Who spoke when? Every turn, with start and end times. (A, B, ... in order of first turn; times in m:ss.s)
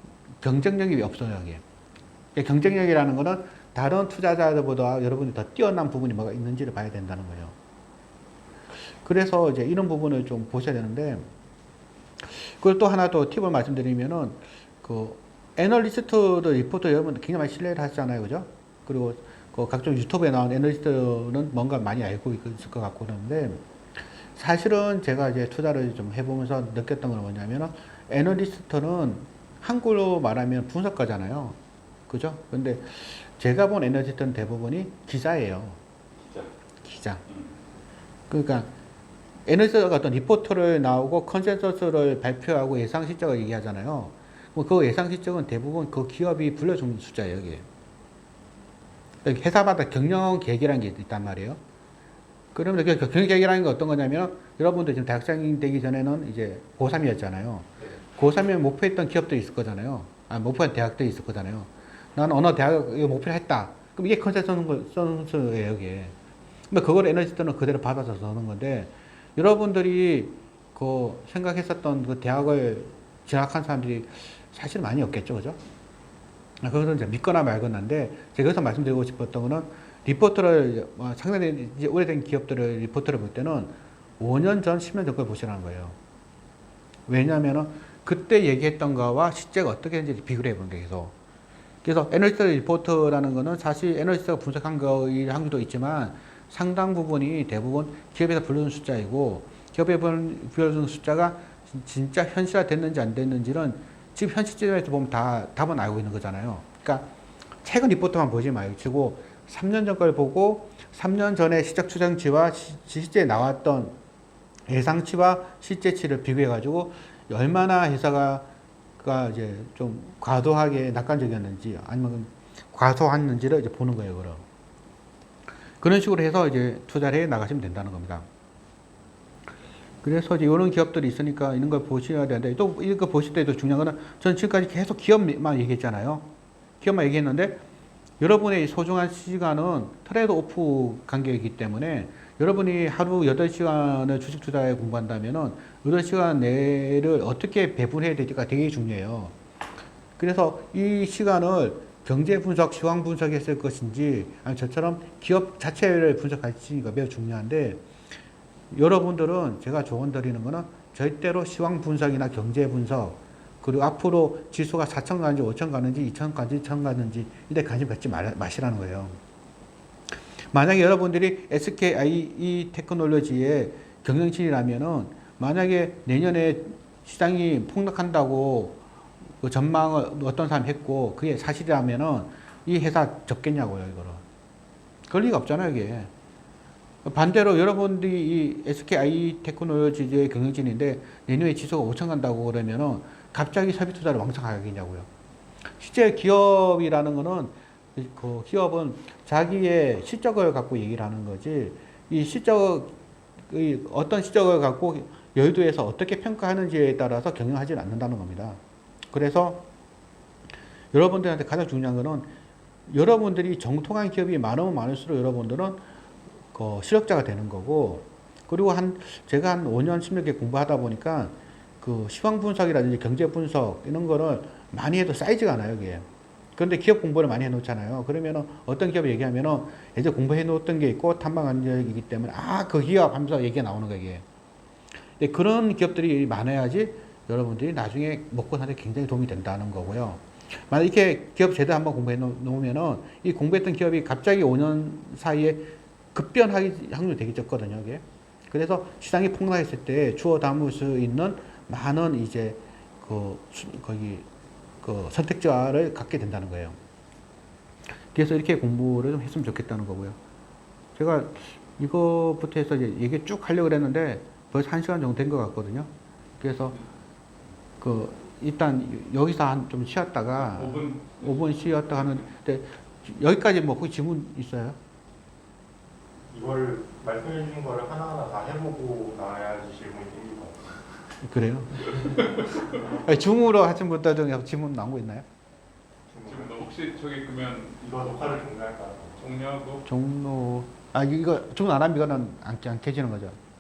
0:00.4-0:01.6 A
0:02.4-0:07.6 A
0:09.0-0:11.3 A
0:12.2-0:23.6 A
0:24.4-0:35.8 A
0:36.2-0:36.5 B
0:36.8-0:37.2 A
0:38.3-0:38.7 A
0:39.5-0:47.6 A
0:49.2-0:51.6 A
0:52.5-1:06.1 A
1:06.7-1:15.6 A
1:16.6-1:26.0 A
1:27.1-1:31.1 A
1:31.8-1:47.1 A
1:47.6-1:54.0 A
1:54.7-1:58.5 A
1:59.0-2:04.4 A
2:05.8-2:08.3 A
2:10.0-2:16.3 A
2:16.8-2:17.6 A
2:18.2-2:29.4 A
2:30.2-2:37.8 A
2:38.7-2:49.2 A
2:50.5-2:58.8 A
2:59.4-3:04.2 A
3:05.1-3:06.1 A
3:07.0-3:15.1 A
3:15.8-3:22.9 A
3:23.5-3:28.6 A
3:29.1-3:29.7 A
3:30.9-3:32.3 A
3:32.9-3:35.8 A
3:36.5-3:54.2 A
3:55.2-4:14.3 A
4:14.8-4:16.8 A
4:18.1-4:20.2 A
4:21.0-4:26.8 A
4:27.8-4:34.8 A
4:30.4-4:31.3 B
4:36.3-4:40.8 C
4:41.2-4:42.2 A
4:42.0-4:42.8 B
4:42.7-4:45.3 A
4:46.1-4:46.6 C
4:46.3-4:48.3 B
4:47.8-4:49.2 C
4:49.2-4:49.8 B
4:49.8-4:53.4 A